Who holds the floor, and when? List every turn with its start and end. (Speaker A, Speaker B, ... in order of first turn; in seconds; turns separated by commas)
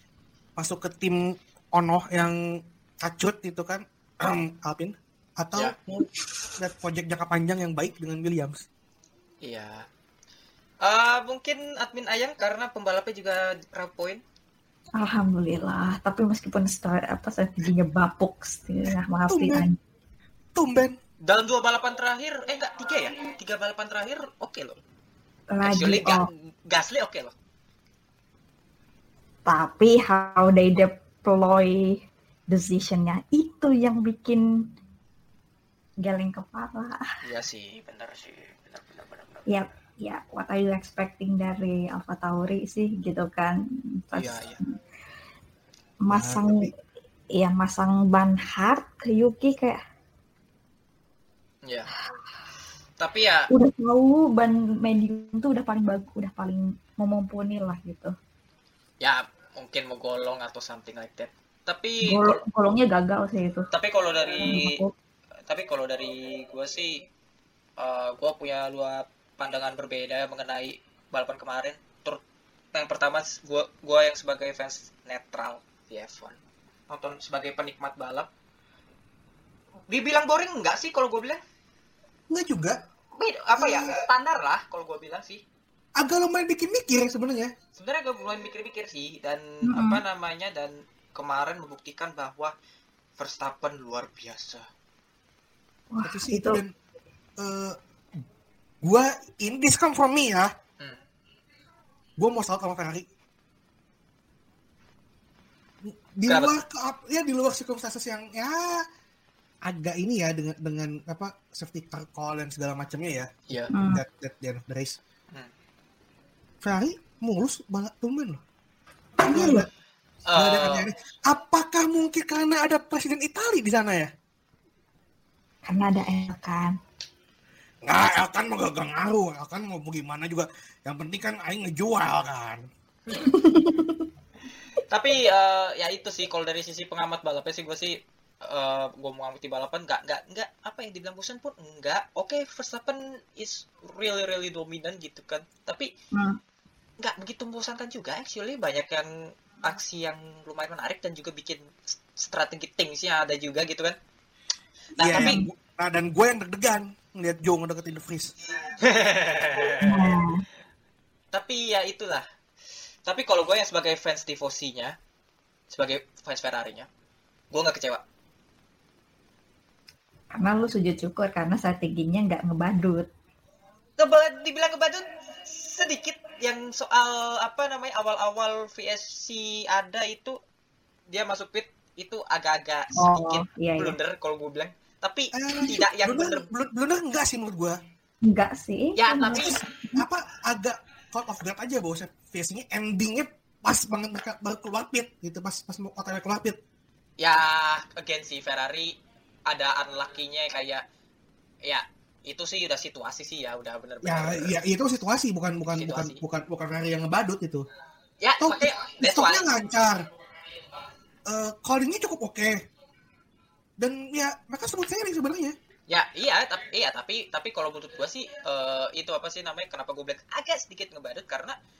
Speaker A: 0.6-8.6, Speaker B: 9.4-9.8, Speaker B: 10.8-14.2, Speaker C: 14.9-19.8, Speaker A: 19.3-19.7, Speaker A: 20.5-21.0, Speaker B: 21.2-24.8, Speaker C: 25.5-26.2, Speaker B: 25.6-27.3, Speaker C: 29.4-34.4, Speaker C: 36.0-37.1, Speaker B: 37.2-39.5, Speaker C: 39.5-44.7, Speaker B: 44.1-44.6, Speaker C: 46.0-46.7, Speaker A: 46.1-46.7, Speaker C: 47.3-49.8, Speaker B: 51.6-51.9, Speaker B: 53.0-53.5, Speaker C: 53.5-58.1, Speaker B: 59.0-62.4, Speaker C: 62.0-63.7, Speaker B: 63.7-64.8, Speaker C: 64.4-64.9, Speaker B: 65.5-67.0, Speaker B: 67.8-72.2, Speaker B: 72.7-76.4, Speaker B: 76.9-78.3, Speaker B: 79.9-81.4, Speaker A: 82.3-82.8, Speaker B: 83.2-85.4, Speaker A: 83.5-84.0, Speaker A: 86.0-87.5, Speaker B: 87.8-92.5, Speaker C: 89.7-90.0, Speaker B: 93.2-94.7, Speaker C: 95.9-96.6, Speaker A: 96.0-96.7, Speaker A: 97.4-97.8, Speaker A: 98.8-100.5, Speaker A: 102.2-103.1, Speaker A: 105.8-108.8, Speaker B: 106.3-106.5, Speaker A: 109.6-115.0, Speaker C: 113.7-114.0, Speaker A: 116.6-118.4, Speaker A: 119.2-119.7, Speaker C: 119.3-119.6, Speaker B: 120.3-120.9, Speaker A: 120.3-124.1, Speaker C: 125.6-126.8, Speaker A: 127.8-132.6, Speaker C: 133.1-134.1, Speaker B: 134.9-145.9, Speaker B: 147.0-149.1, Speaker B: 149.6-153.9, Speaker B: 155.0-155.3, Speaker A: 155.0-158.3, Speaker B: 158.8-160.1, Speaker C: 159.8-160.4, Speaker B: 161.3-162.3, Speaker B: 163.1-164.9, Speaker B: 165.7-166.9, Speaker B: 167.5-168.0, Speaker C: 170.3-173.1, Speaker B: 174.0-180.4, Speaker B: 181.1-186.4, Speaker C: 183.0-183.9, Speaker A: 185.3-187.8, Speaker C: 188.2-190.0, Speaker B: 188.9-189.6, Speaker A: 189.9-196.6, Speaker B: 197.2-198.9, Speaker B: 199.5-200.8, Speaker B: 201.6-204.6, Speaker A: 204.0-207.7, Speaker B: 205.7-206.2, Speaker B: 208.2-209.5, Speaker A: 208.4-210.0, Speaker A: 211.3-212.6, Speaker A: 213.8-215.6, Speaker B: 215.9-221.6